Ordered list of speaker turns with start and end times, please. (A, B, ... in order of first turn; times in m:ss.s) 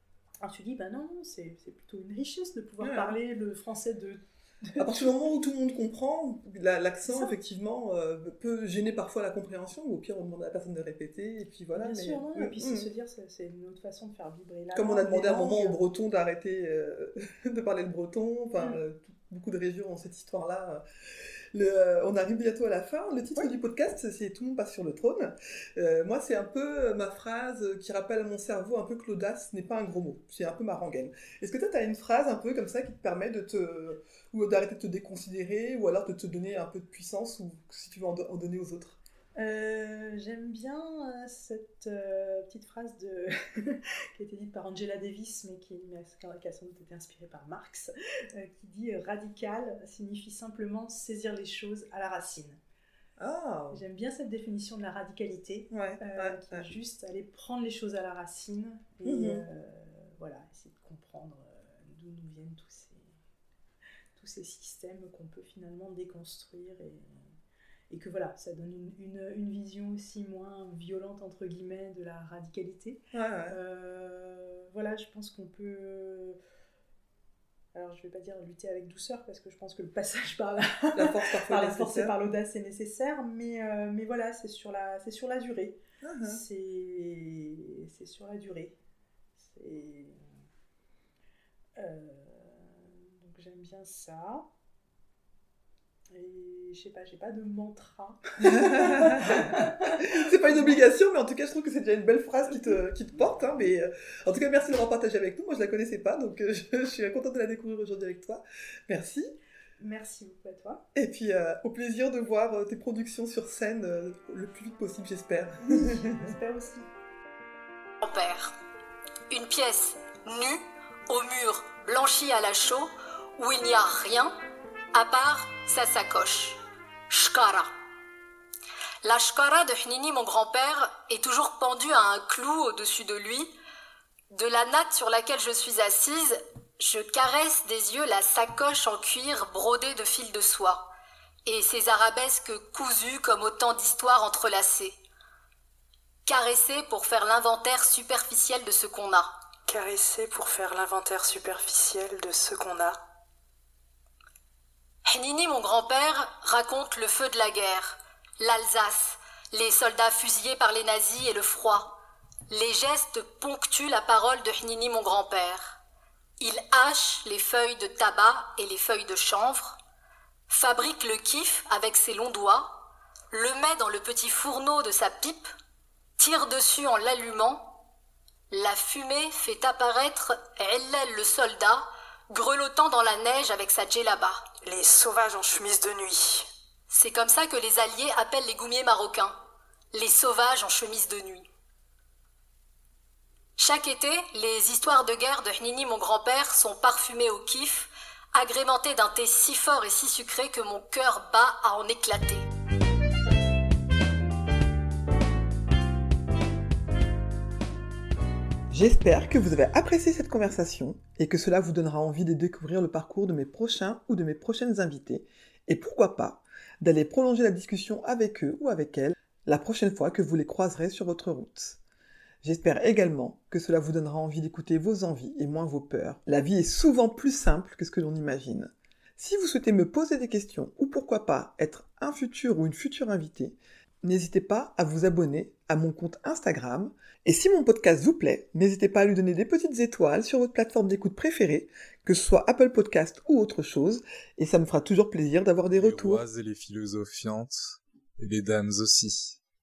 0:00.4-0:05.1 A
0:02.8-0:03.2 B
0:04.8-0:12.9 B
0:11.8-0:15.8 A
0:14.7-0:20.8 B
0:21.5-0:39.0 B
0:39.4-0:52.6 A
0:53.2-0:53.8 B
0:53.7-1:03.0 A
0:55.7-0:56.6 B
0:59.0-0:59.4 B
1:04.2-1:07.2 A
1:07.9-1:16.4 A
1:13.1-1:13.6 B
1:17.7-1:28.8 A
1:21.0-1:22.2 B
1:26.0-1:26.4 B
1:29.4-1:30.2 A
1:31.8-1:34.4 A
1:36.1-1:40.8 A
1:38.4-1:49.3 B
1:49.8-1:50.8 A
1:51.0-1:56.3 B
1:55.6-1:56.9 A
1:58.0-1:58.5 C
1:59.3-2:04.3 C
2:04.9-2:07.7 C
2:09.0-2:13.5 C
2:14.3-2:20.9 C
2:21.4-2:25.0 C
2:26.3-2:29.3 C
2:29.7-2:33.0 D
2:35.1-2:42.0 C
2:42.5-2:45.8 C
2:46.4-2:49.8 C
2:50.5-2:55.5 C
2:56.2-2:57.7 C
2:58.5-3:04.5 C
3:04.6-3:06.4 D
3:06.9-3:09.4 C
3:09.9-3:11.5 C
3:13.6-3:22.4 C
3:28.7-3:41.8 B
3:42.4-4:06.2 B
4:05.7-4:09.4 E